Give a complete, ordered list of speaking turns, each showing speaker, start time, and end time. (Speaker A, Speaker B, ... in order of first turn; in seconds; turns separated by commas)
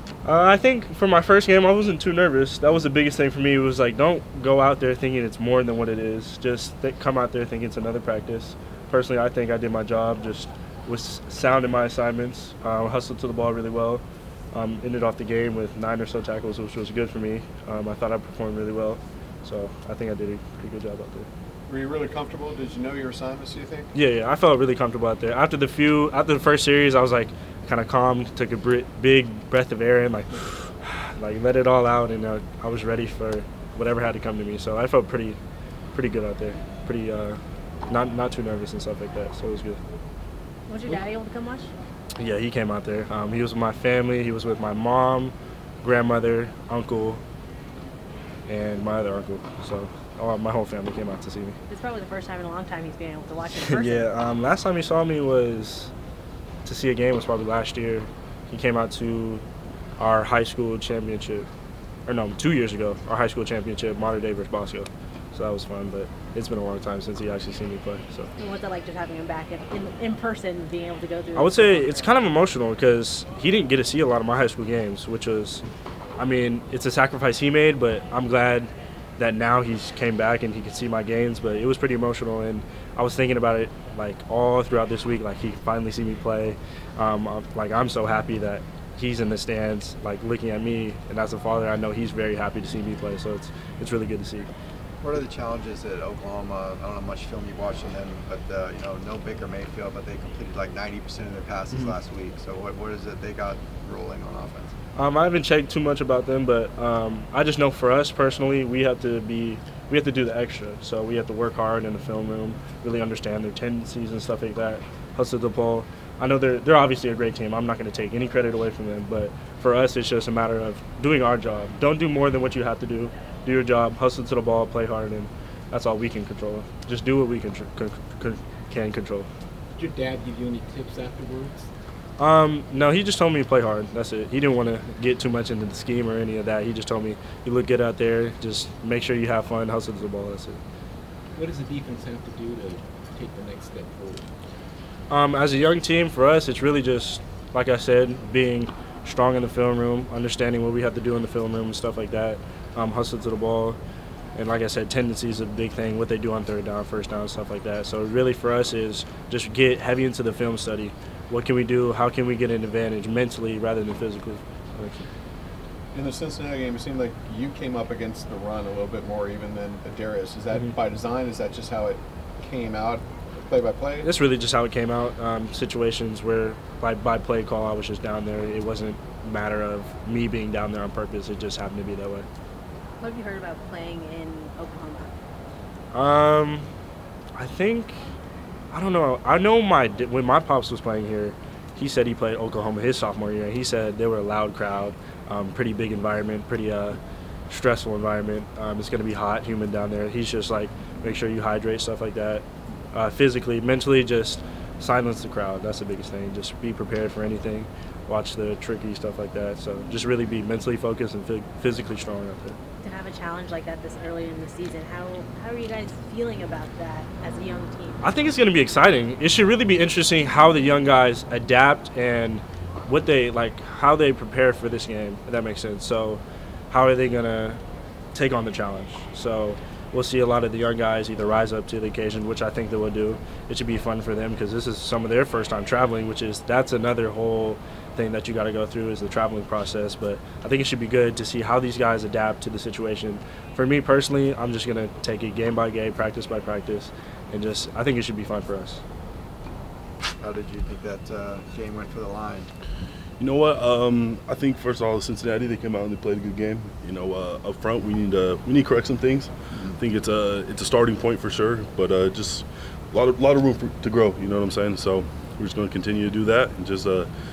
Speaker A: 0.2-14.0, Speaker A: 14.5-21.3, Speaker B: 21.7-23.9, Speaker A: 23.9-35.4, Speaker A: 35.9-39.8, Speaker C: 40.7-41.7, Speaker A: 42.1-47.2, Speaker A: 48.5-51.6, Speaker C: 51.7-54.1, Speaker A: 53.6-55.9, Speaker A: 56.6-59.4, Speaker A: 60.0-61.5, Speaker A: 62.1-68.3, Speaker C: 68.4-72.1, Speaker A: 71.3-75.6, Speaker A: 76.2-94.5, Speaker D: 95.0-104.7, Speaker A: 105.0-129.3, Speaker E: 129.8-131.7, Speaker A: 132.2-140.6, Speaker E: 141.3-144.2, Speaker A: 145.1-153.8, Speaker A: 154.3-165.1, Speaker B: 165.9-174.1, Speaker A: 174.0-182.2, Speaker C: 183.0-185.1, Speaker A: 185.9-186.7, Speaker A: 187.3-187.9, Speaker A: 188.7-212.6, Speaker C: 212.8-218.0, Speaker A: 218.0-227.6, Speaker A: 228.1-248.8, Speaker D: 250.2-252.5, Speaker F: 253.2-267.1